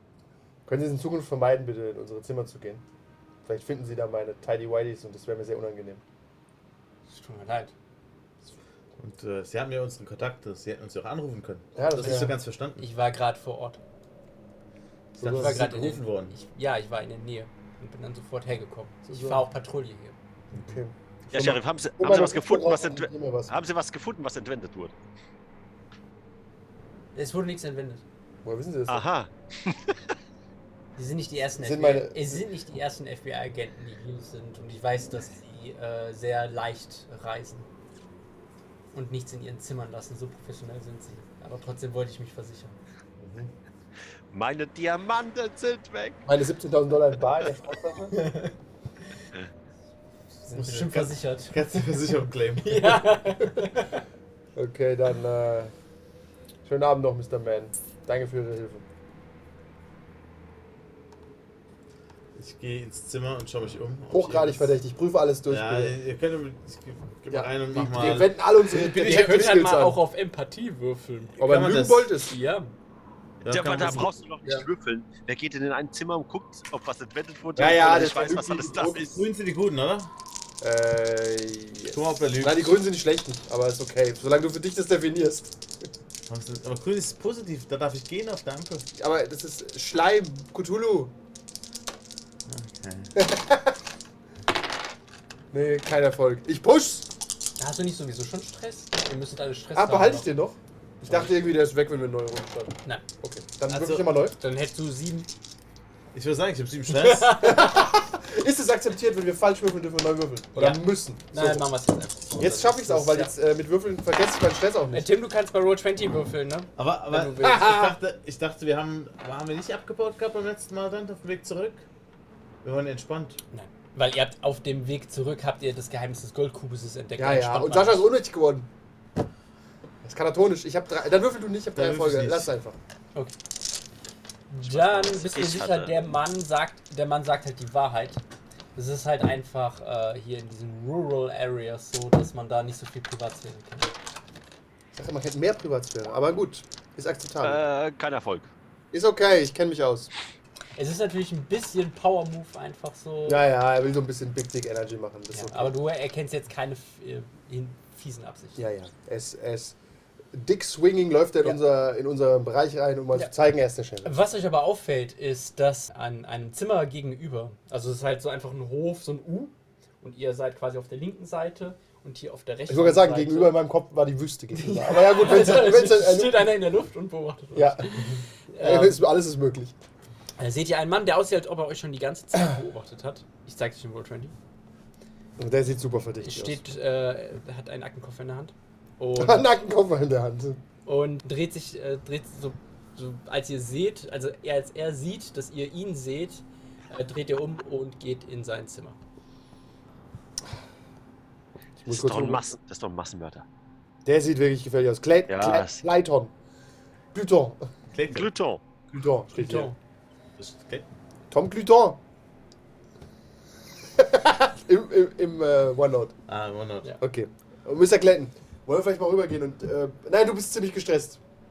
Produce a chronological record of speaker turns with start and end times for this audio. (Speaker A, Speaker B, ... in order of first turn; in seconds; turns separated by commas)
Speaker A: 0.7-2.8, Speaker A: 3.4-6.0, Speaker B: 7.1-7.7, Speaker C: 9.0-12.8, Speaker A: 11.8-12.3, Speaker B: 12.8-13.8, Speaker A: 15.1-16.0, Speaker C: 15.2-16.3, Speaker B: 15.4-20.1, Speaker A: 19.1-19.4, Speaker C: 20.5-20.8, Speaker A: 20.6-23.5, Speaker D: 21.3-24.9, Speaker B: 27.1-28.0, Speaker A: 28.4-29.0, Speaker D: 28.9-30.0, Speaker B: 30.9-37.7, Speaker A: 31.6-32.4, Speaker B: 38.9-42.7, Speaker A: 43.2-43.5, Speaker D: 44.3-46.2, Speaker A: 46.2-48.1, Speaker B: 48.1-48.5, Speaker B: 50.5-54.0, Speaker C: 50.5-53.0, Speaker A: 54.5-55.7, Speaker A: 56.6-58.8, Speaker C: 62.4-64.7, Speaker A: 64.1-66.0, Speaker C: 65.5-69.7, Speaker A: 67.3-70.0, Speaker B: 68.9-71.4, Speaker A: 71.4-72.3, Speaker C: 71.4-72.1, Speaker B: 72.3-72.7, Speaker C: 73.4-74.1, Speaker D: 73.4-79.1, Speaker C: 77.5-80.1, Speaker A: 77.6-79.2, Speaker A: 80.6-85.9, Speaker C: 81.9-82.8, Speaker C: 86.3-88.8, Speaker A: 89.0-91.1, Speaker C: 92.5-93.1, Speaker A: 93.1-93.8, Speaker A: 95.5-97.1, Speaker B: 97.6-100.3, Speaker A: 99.7-104.3, Speaker B: 101.0-101.3, Speaker C: 103.7-104.0, Speaker B: 103.8-105.3, Speaker C: 106.1-107.4, Speaker B: 106.9-107.8, Speaker A: 107.3-111.7, Speaker B: 110.5-113.3, Speaker A: 112.4-115.1, Speaker B: 114.9-117.8, Speaker C: 116.8-121.8, Speaker A: 117.4-118.0, Speaker C: 122.6-123.4, Speaker B: 123.5-128.1, Speaker A: 127.2-128.7, Speaker A: 130.0-132.8, Speaker C: 131.7-132.5, Speaker B: 134.5-138.2, Speaker D: 134.7-136.1, Speaker B: 138.7-143.9, Speaker A: 144.9-147.6, Speaker D: 147.4-148.5, Speaker A: 148.9-150.1, Speaker B: 150.8-153.4, Speaker A: 153.2-155.7, Speaker B: 155.3-158.6, Speaker A: 158.6-159.7, Speaker A: 160.3-164.1, Speaker B: 164.0-173.6, Speaker A: 172.7-176.6, Speaker B: 174.5-179.1, Speaker A: 177.5-179.7, Speaker B: 180.4-184.3, Speaker A: 185.4-186.6, Speaker B: 186.2-189.5, Speaker A: 189.2-190.6, Speaker B: 190.8-199.0, Speaker A: 201.8-202.4, Speaker D: 201.9-203.4, Speaker A: 204.0-206.3, Speaker D: 205.3-205.8, Speaker A: 207.1-207.6, Speaker C: 207.9-208.3, Speaker D: 208.1-208.6, Speaker A: 208.9-209.7, Speaker B: 209.3-209.8, Speaker C: 210.4-210.8, Speaker A: 211.3-212.0, Speaker A: 214.0-216.1, Speaker C: 216.3-216.9, Speaker A: 217.0-221.2